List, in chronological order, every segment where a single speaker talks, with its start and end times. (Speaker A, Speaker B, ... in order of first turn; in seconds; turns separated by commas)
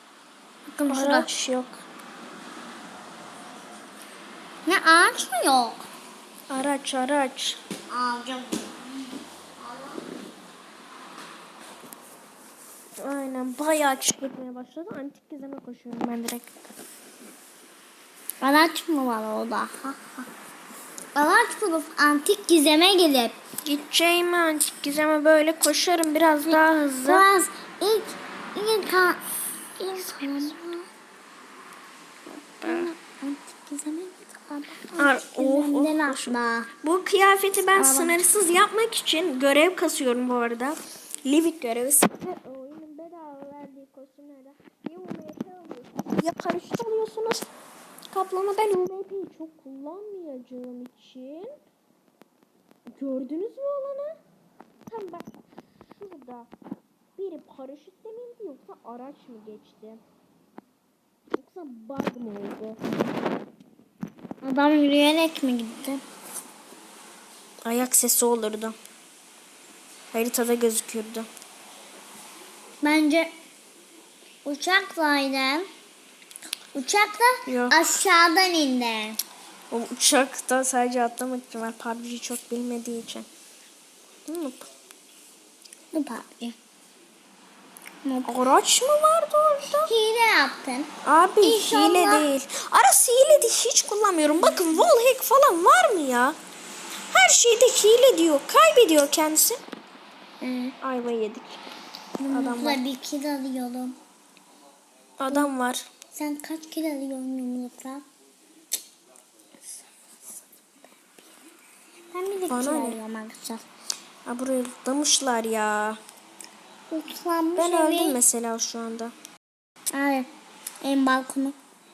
Speaker A: 0.7-1.3, Speaker B: 0.9-1.8, Speaker A: 4.7-5.9, Speaker B: 6.5-7.6, Speaker A: 7.9-10.0, Speaker B: 13.0-16.6, Speaker A: 18.4-20.2, Speaker A: 21.1-23.4, Speaker B: 23.6-27.2, Speaker A: 27.1-29.2, Speaker A: 29.8-30.9, Speaker B: 30.0-30.5, Speaker B: 32.6-32.9, Speaker A: 32.6-36.7, Speaker B: 35.0-47.5, Speaker A: 37.8-38.2, Speaker B: 48.1-51.5, Speaker B: 52.9-54.1, Speaker B: 54.9-55.3, Speaker B: 55.9-56.5, Speaker B: 57.2-60.0, Speaker B: 61.3-62.8, Speaker A: 64.4-66.0, Speaker B: 67.7-68.8, Speaker B: 70.1-71.3, Speaker A: 72.8-73.3, Speaker A: 74.4-75.7, Speaker A: 76.7-79.2, Speaker B: 77.5-77.8, Speaker B: 79.7-83.3, Speaker B: 84.3-84.7, Speaker A: 85.9-86.6, Speaker A: 88.0-88.4, Speaker B: 88.2-89.9, Speaker A: 89.8-90.9, Speaker B: 91.0-96.4, Speaker A: 91.4-92.2, Speaker B: 97.1-99.6, Speaker A: 100.4-100.8, Speaker B: 100.8-101.6, Speaker A: 102.2-104.0, Speaker B: 102.3-102.8, Speaker B: 105.2-105.9, Speaker A: 106.1-108.0, Speaker A: 112.1-113.6, Speaker B: 112.5-113.0, Speaker B: 114.2-116.0, Speaker A: 116.9-118.2, Speaker B: 117.6-119.1, Speaker A: 119.9-120.3, Speaker A: 120.8-121.6